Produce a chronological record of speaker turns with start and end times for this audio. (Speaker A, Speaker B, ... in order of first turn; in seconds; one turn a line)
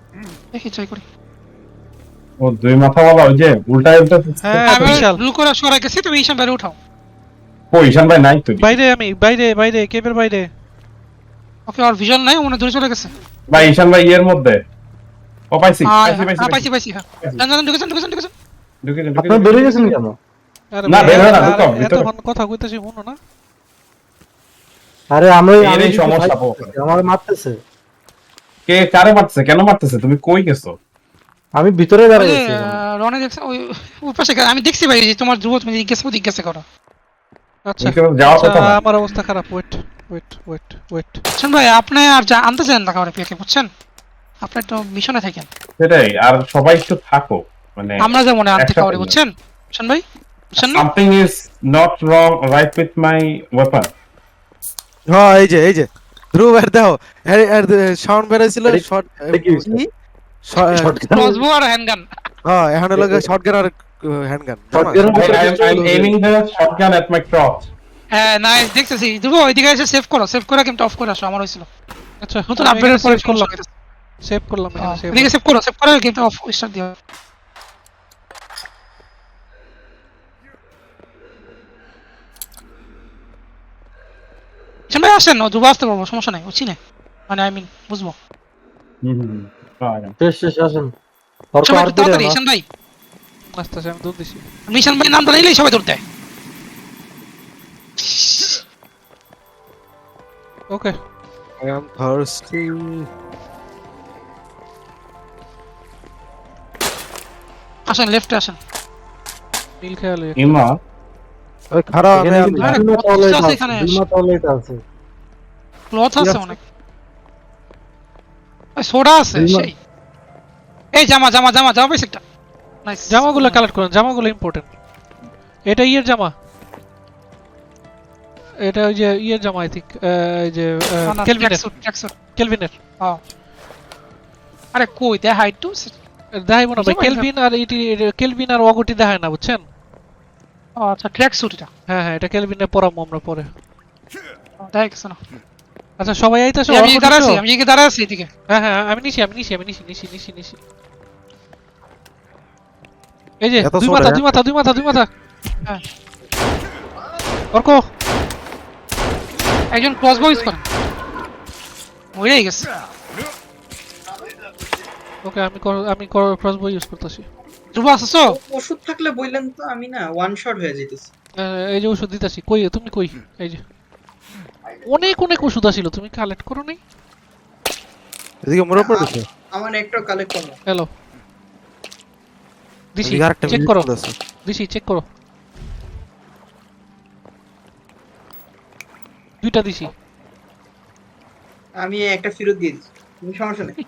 Speaker A: 0.5-1.0
Speaker B: 2.4-5.0
Speaker C: 4.4-5.2
Speaker A: 4.7-6.8
Speaker B: 7.7-8.7
Speaker C: 8.6-10.5
Speaker A: 11.7-13.7
Speaker B: 13.5-14.6
Speaker B: 15.5-16.7
Speaker A: 15.8-18.3
Speaker B: 18.8-19.8
Speaker D: 19.2-20.1
Speaker C: 20.7-23.2
Speaker B: 20.9-22.1
Speaker A: 21.0-21.4
Speaker D: 25.1-27.6
Speaker B: 25.6-26.8
Speaker B: 28.7-30.8
Speaker D: 31.6-32.8
Speaker A: 32.1-36.6
Speaker C: 37.7-41.2
Speaker B: 37.8-38.8
Speaker A: 41.4-43.7
Speaker A: 44.5-45.5
Speaker B: 45.8-49.2
Speaker A: 48.0-50.0
Speaker A: 50.5-50.9
Speaker B: 50.6-53.9
Speaker E: 55.1-59.9
Speaker D: 58.7-59.8
Speaker E: 60.4-61.0
Speaker D: 60.6-61.4
Speaker A: 61.1-62.1
Speaker E: 62.5-65.4
Speaker D: 63.0-63.3
Speaker D: 64.7-66.2
Speaker B: 65.1-67.7
Speaker A: 68.1-71.7
Speaker C: 72.2-73.5
Speaker A: 72.5-73.7
Speaker C: 74.2-75.3
Speaker A: 74.8-77.0
Speaker A: 84.9-86.8
Speaker A: 87.3-88.2
Speaker B: 89.0-90.1
Speaker D: 90.2-90.9
Speaker D: 91.5-92.4
Speaker A: 91.7-92.6
Speaker C: 93.5-94.5
Speaker A: 94.7-96.0
Speaker A: 98.0-98.6
Speaker E: 101.6-103.1
Speaker A: 107.9-108.6
Speaker C: 109.8-110.6
Speaker B: 110.4-110.8
Speaker E: 111.7-112.8
Speaker D: 112.1-114.8
Speaker A: 112.6-114.0
Speaker A: 115.9-116.6
Speaker E: 116.2-116.5
Speaker A: 118.8-119.7
Speaker D: 119.3-119.7
Speaker A: 121.0-122.2
Speaker A: 122.8-123.6
Speaker C: 123.1-124.7
Speaker C: 125.7-126.3
Speaker C: 128.6-131.7
Speaker A: 131.1-132.1
Speaker C: 132.4-132.7
Speaker A: 134.7-135.9
Speaker C: 136.4-139.6
Speaker A: 136.8-137.3
Speaker A: 140.8-141.7
Speaker C: 141.9-143.5
Speaker A: 144.6-145.2
Speaker C: 146.0-147.4
Speaker A: 146.7-148.3
Speaker C: 148.5-150.6
Speaker C: 153.4-155.1
Speaker E: 153.6-154.3
Speaker C: 157.5-157.8
Speaker A: 159.7-160.7
Speaker A: 162.2-162.7
Speaker C: 165.2-167.3
Speaker A: 167.8-168.4
Speaker F: 168.3-171.1
Speaker C: 171.4-173.6
Speaker C: 174.9-176.8
Speaker E: 178.4-179.3
Speaker F: 178.7-180.6
Speaker C: 183.0-183.9
Speaker E: 183.0-184.2
Speaker C: 184.4-185.0
Speaker C: 189.4-189.9
Speaker F: 191.8-193.8